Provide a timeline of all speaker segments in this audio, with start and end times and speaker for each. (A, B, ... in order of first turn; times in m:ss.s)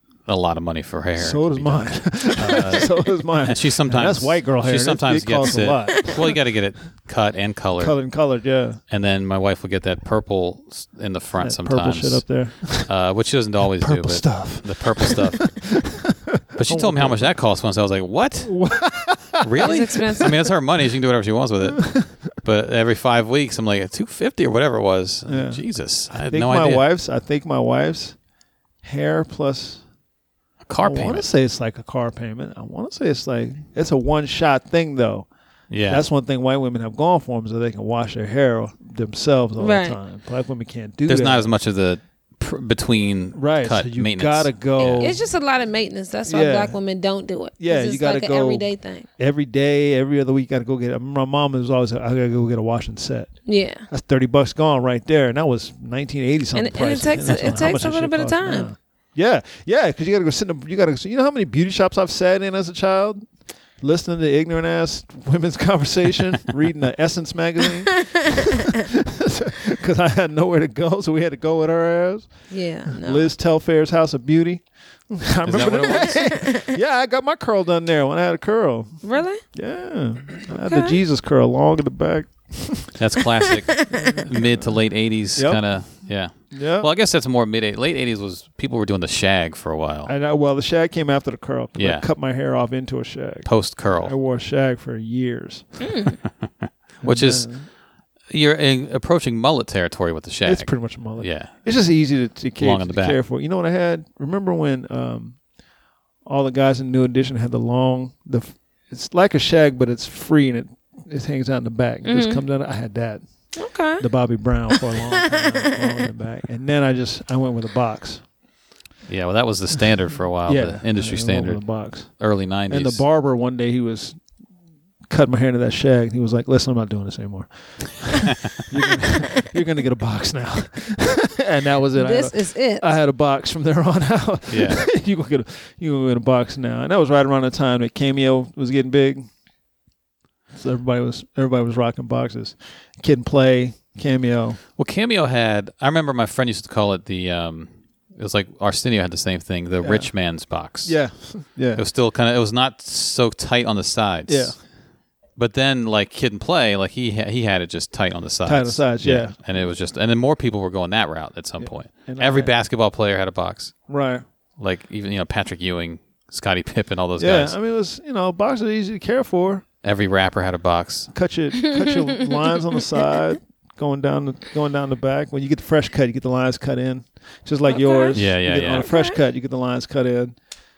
0:00.3-0:08.0 A
0:01.2-0:06.4 B
0:07.8-0:08.8 B
0:08.9-0:15.7 A
0:11.4-0:12.9 B
0:13.8-0:17.3 B
0:16.6-0:18.7 A
0:18.4-0:20.4 B
0:19.4-0:26.8 A
0:19.6-0:20.3 C
0:21.6-0:22.1 B
0:25.3-0:28.2 B
0:28.8-0:29.8 B
0:30.6-0:31.3 A
0:30.8-0:35.3 B
0:35.7-0:36.1 A
0:35.9-0:41.5 B
0:39.6-0:40.0 C
0:41.1-0:45.2 A
0:43.4-0:45.2 B
0:44.8-0:49.1 C
0:46.3-0:46.8 B
0:47.6-0:53.3 B
0:53.5-0:53.9 C
0:53.9-1:03.2 B
0:56.5-0:58.7 C
1:03.8-1:23.0 B
1:07.9-1:08.8 C
1:12.5-1:13.3 C
1:15.4-1:16.4 A
1:16.1-1:16.7 C
1:19.0-1:19.4 C
1:20.6-1:21.0 C
1:23.0-1:30.1 A
1:23.7-1:24.2 C
1:23.9-1:24.8 B
1:25.4-1:25.6 B
1:26.5-1:26.9 B
1:30.0-1:35.7 B
1:31.8-1:32.1 A
1:33.5-1:34.1 A
1:35.8-1:36.2 C
1:36.4-1:37.5 A
1:37.0-1:37.7 B
1:38.3-1:41.5 A
1:40.4-1:45.4 B
1:42.6-1:43.2 A
1:46.2-1:53.2 B
1:52.1-1:52.4 C
1:53.6-1:54.0 C
1:54.0-1:58.2 B
1:54.7-1:56.0 C
1:59.1-2:03.0 A
2:00.5-2:02.1 B
2:02.7-2:04.2 B
2:05.1-2:19.3 B
2:12.0-2:12.9 C
2:14.5-2:14.8 A
2:20.5-2:24.6 B
2:24.8-2:31.0 A
2:29.8-2:30.1 B
2:30.8-2:31.8 B
2:31.8-2:34.6 A
2:34.3-2:34.6 B
2:35.4-2:43.8 A
2:38.4-2:39.4 B
2:41.6-2:42.5 B
2:43.9-2:44.2 B
2:44.6-2:47.6 A
2:47.2-2:49.6 B
2:49.8-2:51.1 A
2:51.1-3:00.4 B
2:51.6-2:52.3 C
2:57.7-2:58.2 C
2:58.1-2:58.9 A
2:58.8-2:59.2 C